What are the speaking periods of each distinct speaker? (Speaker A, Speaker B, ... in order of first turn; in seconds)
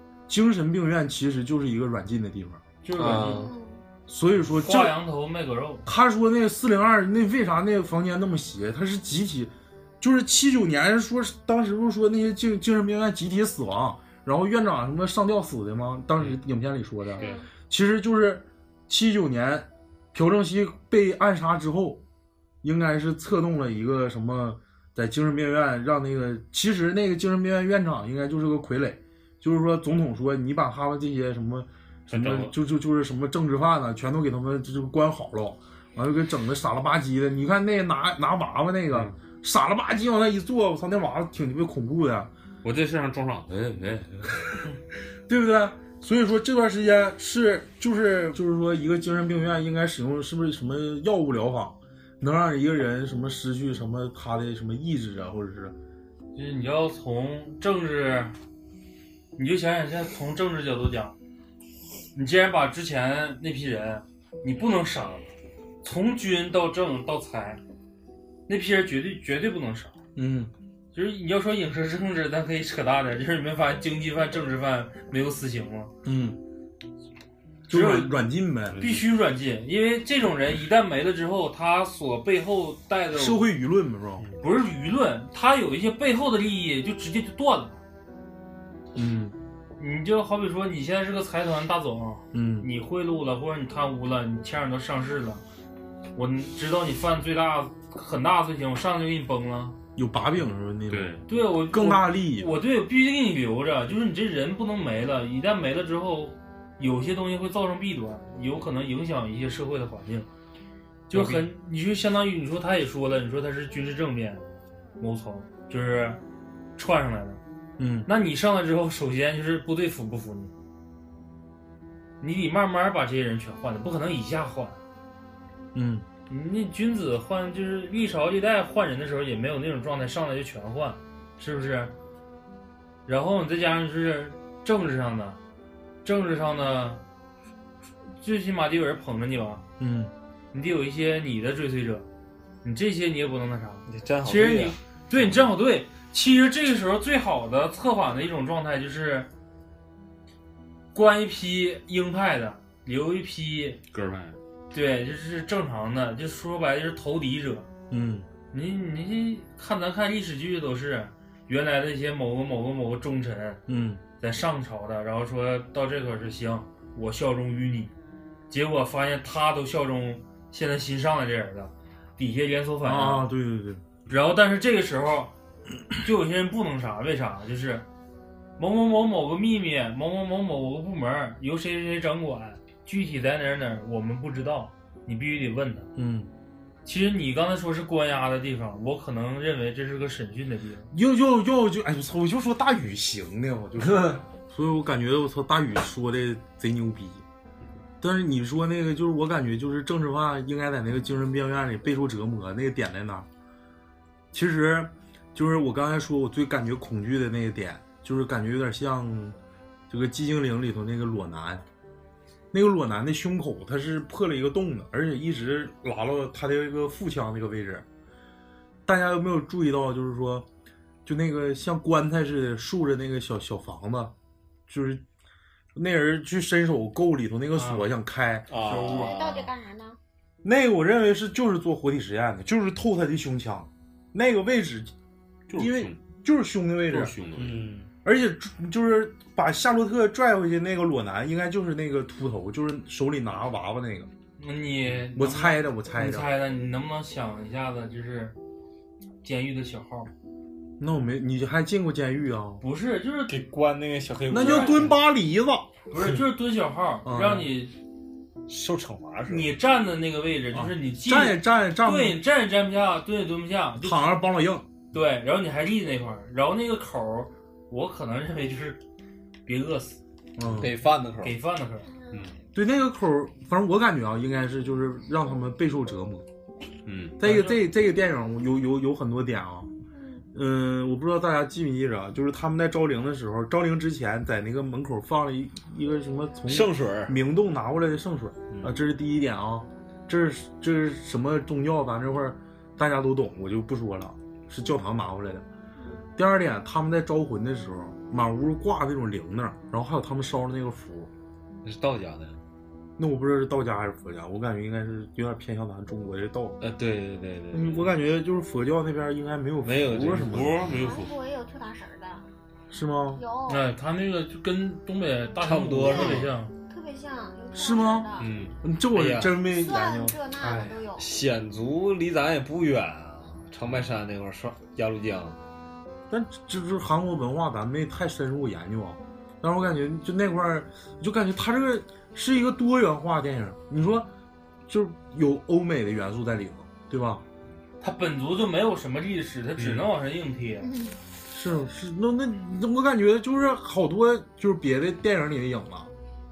Speaker A: 0.3-2.6, 4.1-5.0, 5.8-22.0, 22.6-42.3, 45.3-55.8, 70.2-70.5, 76.0-76.4, 77.7-78.8, 83.1-84.2, 88.9-89.3, 92.3-92.7, 100.0-102.5, 117.8-118.1, 125.7-126.0, 139.8-140.1, 157.9-158.3, 163.7-164.0, 172.8-173.8, 185.9-186.3, 190.9-197.2, 198.0-203.3, 204.3-209.4, 209.9-211.6, 212.5-217.8, 218.8-220.5, 221.1-224.1, 224.7-225.0, 225.7-228.5, 230.4-234.9, 235.5-237.1, 238.0-244.1, 245.1-246.3, 250.8-252.6, 254.3-255.8, 257.0-257.5, 260.5-262.2, 263.8-264.7, 270.4-270.7, 272.5-276.2, 277.2-279.7, 280.3-295.4, 296.1-301.1, 303.0-306.6, 307.5-310.7, 312.7-313.2, 317.5-320.1, 326.1-334.1, 334.7-337.2, 341.3-345.9
Speaker B: 2.8-3.5, 4.5-5.9, 56.3-58.3, 59.4-61.1, 62.1-65.3, 65.8-67.6, 68.5-70.0, 70.9-75.9, 77.7-78.2, 78.8-83.4, 84.4-87.8, 89.8-95.4, 96.2-99.8, 101.3-110.3, 111.1-114.4, 115.0-116.2, 116.8-117.4, 118.0-120.5, 122.2-124.8, 126.3-131.9, 133.1-135.4, 136.0-137.0, 138.2-139.6, 140.5-142.1, 142.6-149.3, 150.9-153.8, 154.7-157.7, 158.5-163.6, 164.2-167.9, 168.5-173.2, 174.1-175.3, 176.0-177.8, 178.6-185.9, 186.8-190.9, 244.4-248.3, 249.2-250.1, 252.6-253.4, 254.4-254.8, 255.9-257.7, 259.3-264.2, 264.9-268.8, 269.4-270.0, 271.2-271.9, 277.2-277.6, 313.5-316.5, 320.4-320.7, 337.8-340.7
Speaker C: 3.0-3.5, 143.9-144.8, 228.5-229.5, 237.3-237.9, 253.3-255.0, 258.5-259.5, 270.5-271.4, 286.5-287.1, 301.6-302.4, 306.6-307.9, 309.6-310.7, 315.4-316.3, 318.9-319.4, 321.0-325.4
Speaker D: 3.3-3.8, 17.1-17.5, 228.8-230.0, 271.9-272.3, 279.9-280.2, 310.7-312.2, 313.1-313.7, 316.7-318.3, 319.4-321.1, 340.6-341.0
Speaker E: 32.1-32.5, 42.6-44.6, 78.8-79.0, 100.9-101.2, 153.9-154.4, 228.6-229.2, 235.5-236.0, 236.9-237.7, 276.9-277.2, 310.1-311.1, 318.2-318.6, 339.6-339.9